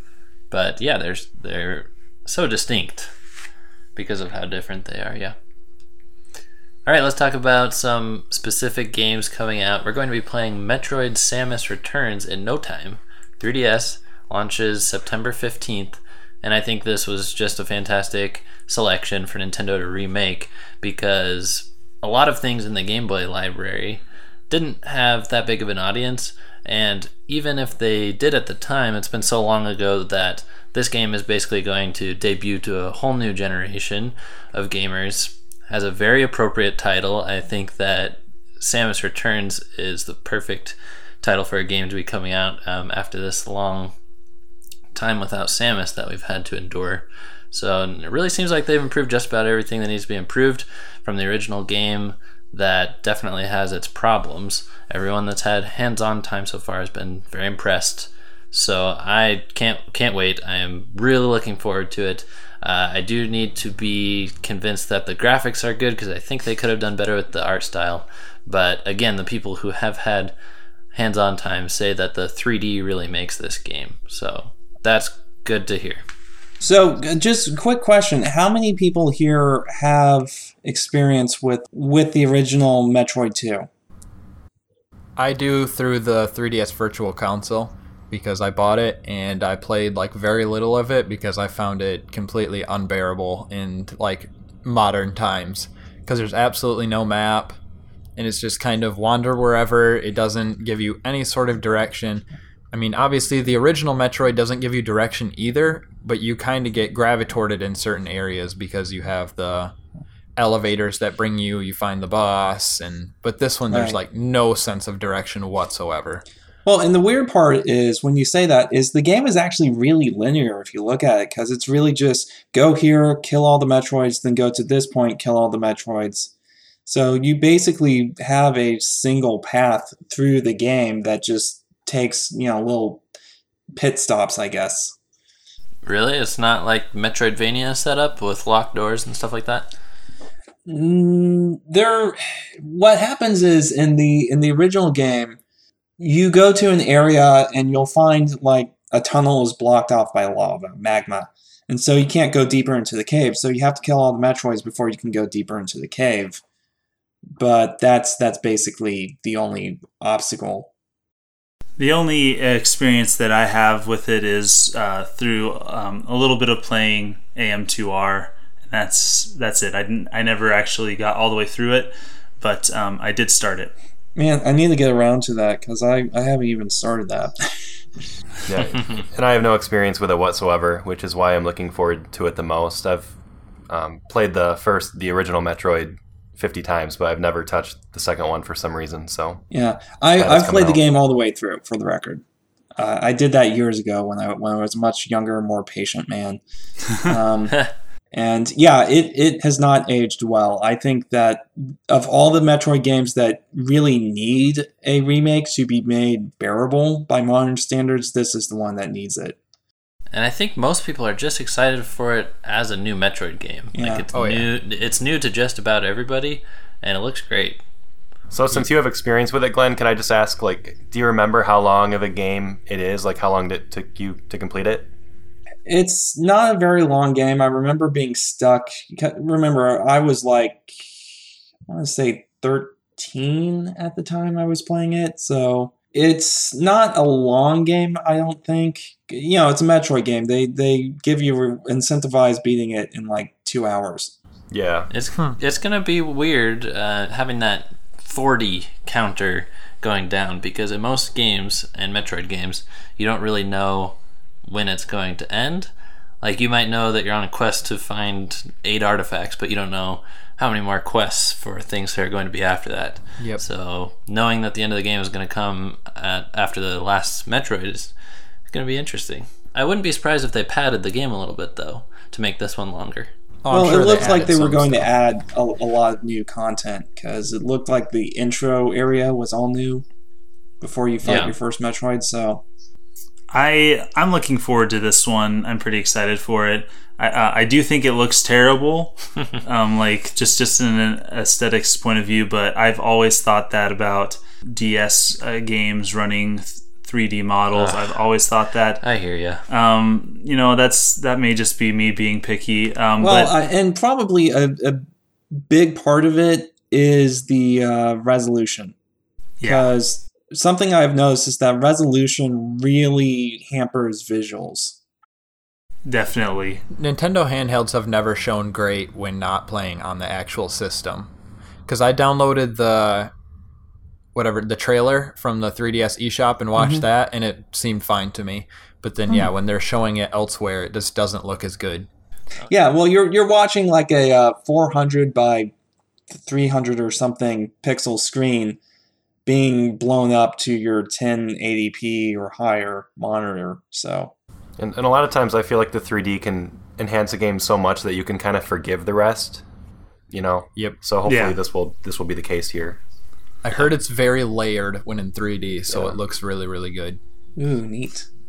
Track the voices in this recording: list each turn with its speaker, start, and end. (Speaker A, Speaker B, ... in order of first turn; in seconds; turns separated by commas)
Speaker A: 0.5-3.1, Speaker A: 4.0-5.3, Speaker A: 6.8-43.9, Speaker A: 44.9-70.3, Speaker A: 70.9-76.0, Speaker B: 76.6-83.7, Speaker C: 85.2-97.5, Speaker C: 98.2-109.7, Speaker C: 110.3-116.2, Speaker B: 113.7-114.0, Speaker B: 116.6-126.3, Speaker B: 126.8-133.0, Speaker B: 133.7-134.9, Speaker A: 135.8-139.7, Speaker B: 140.7-145.4, Speaker B: 146.0-156.4, Speaker B: 157.3-160.7, Speaker D: 161.8-173.7, Speaker B: 174.2-177.4, Speaker E: 178.5-183.1, Speaker E: 183.7-189.4, Speaker B: 189.5-192.2, Speaker E: 190.2-190.8, Speaker B: 192.8-196.4, Speaker B: 196.9-209.4, Speaker A: 210.1-217.6, Speaker B: 213.7-214.1, Speaker C: 214.1-214.5, Speaker E: 218.3-224.9, Speaker B: 225.7-230.9, Speaker B: 231.7-244.1, Speaker E: 244.5-244.9, Speaker A: 244.9-255.7, Speaker A: 256.2-267.9, Speaker A: 268.5-273.1, Speaker C: 273.4-274.9, Speaker B: 273.5-279.8, Speaker B: 280.6-282.4, Speaker A: 281.0-281.4, Speaker D: 283.3-298.8, Speaker A: 297.5-298.0, Speaker A: 298.8-299.4, Speaker D: 299.5-303.3, Speaker B: 303.0-308.7, Speaker D: 309.4-309.7, Speaker B: 309.4-314.8, Speaker D: 315.8-316.6, Speaker C: 316.7-321.1, Speaker C: 321.7-323.1, Speaker C: 324.1-331.9, Speaker B: 326.6-326.8, Speaker B: 332.5-335.5, Speaker B: 336.1-338.6, Speaker B: 339.2-344.1, Speaker E: 344.6-349.4, Speaker E: 350.1-352.8, Speaker D: 351.1-351.4, Speaker C: 353.4-357.0, Speaker E: 355.7-356.0, Speaker B: 357.4-358.1